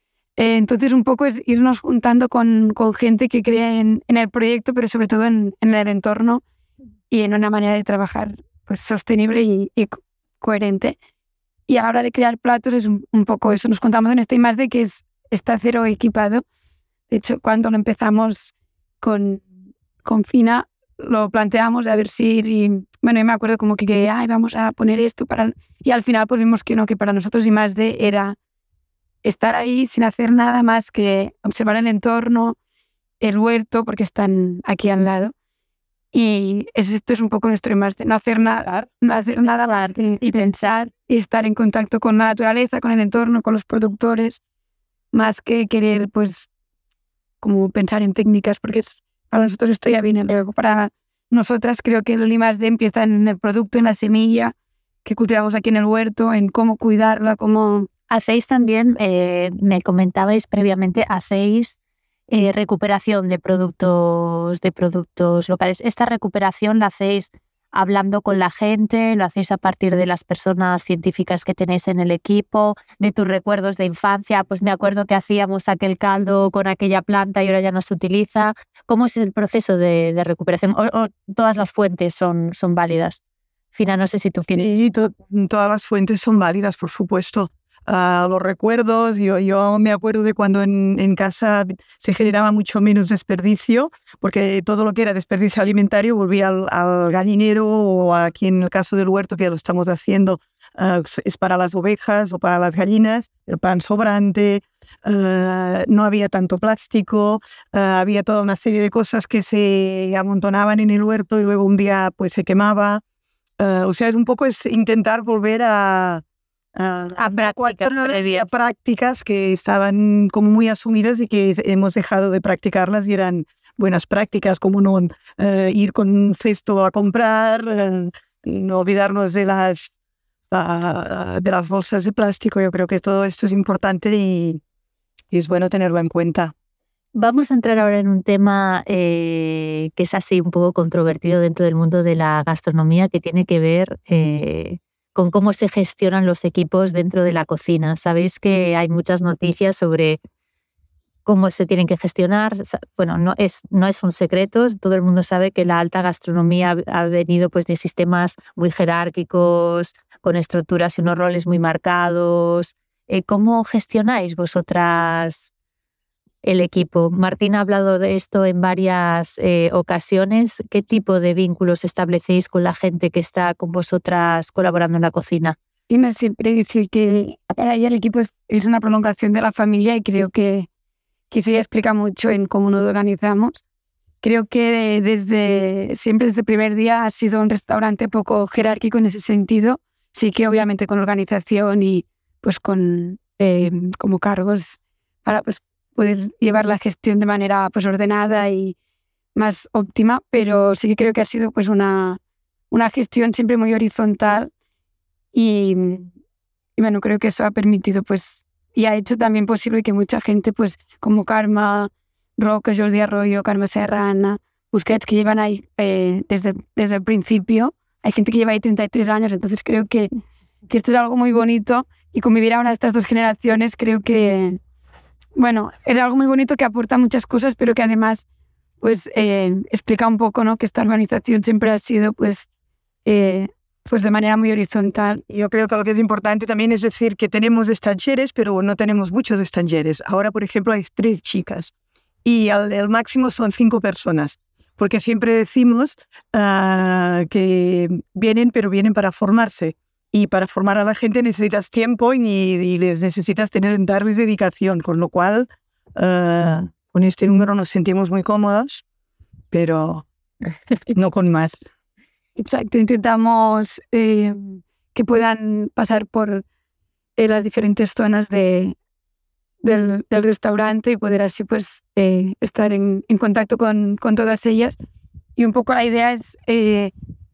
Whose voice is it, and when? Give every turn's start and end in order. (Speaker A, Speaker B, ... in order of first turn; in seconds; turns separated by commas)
Speaker A: 0.4-6.4, Speaker A: 7.1-10.9, Speaker A: 11.7-16.4, Speaker A: 17.1-19.5, Speaker A: 20.0-28.4, Speaker A: 29.2-32.5, Speaker A: 33.2-35.3, Speaker A: 36.1-44.4, Speaker B: 39.5-40.7, Speaker A: 45.1-46.5, Speaker A: 47.4-54.5, Speaker A: 55.0-57.9, Speaker B: 58.1-61.8, Speaker B: 62.3-83.2, Speaker B: 83.7-84.7, Speaker C: 84.5-113.0, Speaker C: 113.6-116.2, Speaker C: 116.7-129.9, Speaker B: 117.2-118.5, Speaker C: 130.5-134.6, Speaker C: 135.3-136.5, Speaker B: 137.1-150.2, Speaker B: 151.2-165.5, Speaker B: 166.4-175.6, Speaker A: 175.9-180.7, Speaker A: 181.3-183.6, Speaker A: 184.2-198.8, Speaker A: 199.3-202.2, Speaker A: 202.7-204.5, Speaker A: 205.3-206.1, Speaker A: 206.8-220.1, Speaker A: 220.7-224.6, Speaker A: 225.3-228.2, Speaker A: 228.8-232.4, Speaker A: 233.1-235.2, Speaker C: 235.3-241.7, Speaker C: 242.2-258.8, Speaker C: 259.5-260.1, Speaker C: 260.9-261.6, Speaker A: 262.4-266.4, Speaker A: 267.2-268.8, Speaker A: 269.6-274.8, Speaker A: 275.4-276.9